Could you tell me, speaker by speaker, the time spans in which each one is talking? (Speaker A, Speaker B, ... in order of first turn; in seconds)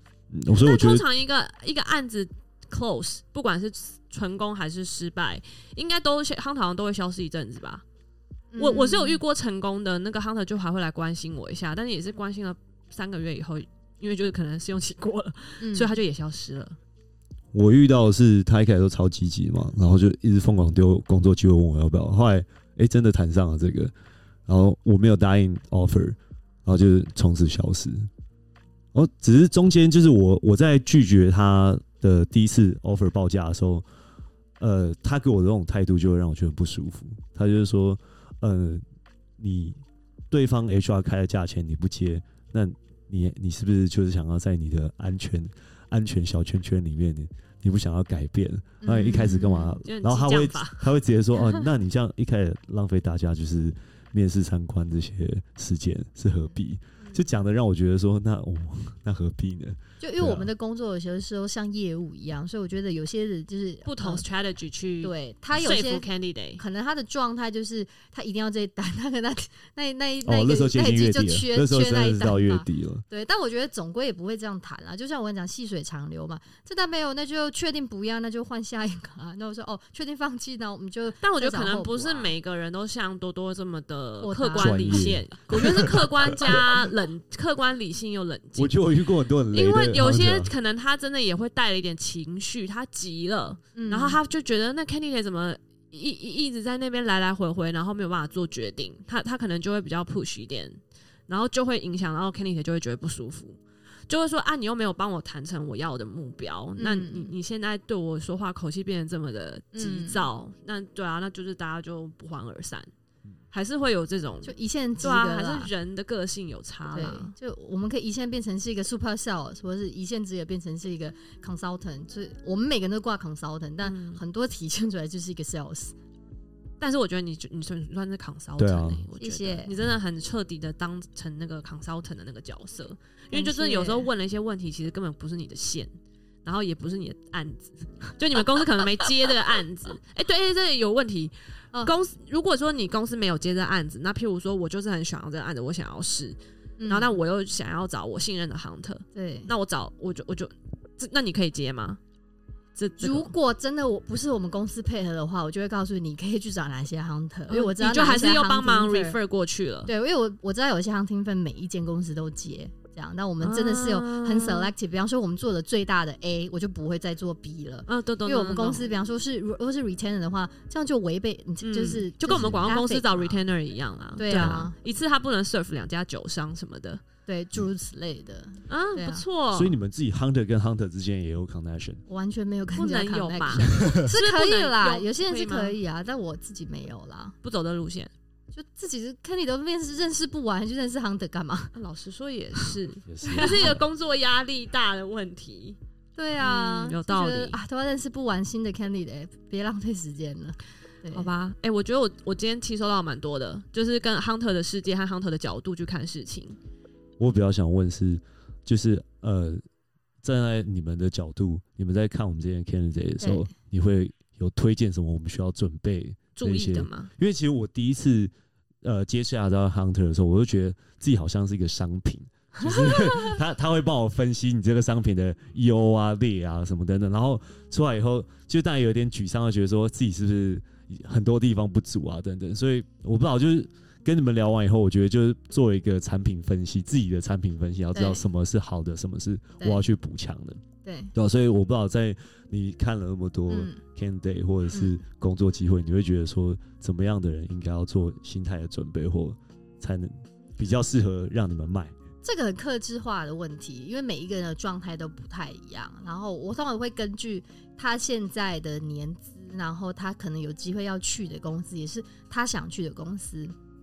Speaker A: 0.3-1.1, 17.5-23.9, 24.5-28.1, 28.9-33.9, 34.6-38.8, 39.4-39.8, 40.3-60.5, 70.2-73.0, 84.6-86.7, 88.6-90.5, 128.6-129.0, 174.3-174.7, 179.5-182.0, 183.6-184.1, 193.1-193.8, 207.2-209.6, 210.2-218.3, 218.8-240.6, 241.2-251.9
Speaker B: 0.5-7.8, 8.6-16.8, 49.2-50.9, 63.9-66.6, 81.2-88.8, 89.5-103.6, 104.1-112.9, 113.5-117.3, 123.8-124.2, 126.8-135.9, 136.4-146.4, 146.9-152.0, 152.8-153.3, 157.5-159.9, 163.4-164.7, 167.9-168.9, 171.6-177.0, 178.7-179.8, 182.8-185.8, 187.4-188.1, 191.8-195.8, 196.4-197.6, 201.1-206.6, 216.4-217.1, 222.9-223.2
Speaker C: 8.5-9.2, 15.6-15.9, 48.8-49.8, 60.0-64.2, 65.0-66.1, 66.6-82.3, 84.2-85.1, 93.7-94.2, 106.8-107.3, 109.7-110.2, 114.4-115.7, 116.9-126.0, 129.2-129.7, 133.3-134.1, 146.8-147.2, 149.2-149.5, 153.0-159.2, 159.9-173.4, 174.2-174.8, 177.3-179.2, 182.1-187.4, 188.5-191.7, 193.2-193.8, 196.2-201.3, 213.2-213.5, 237.9-238.2, 239.6-239.8, 240.8-241.1, 243.5-243.8, 244.7-245.0, 252.2-263.6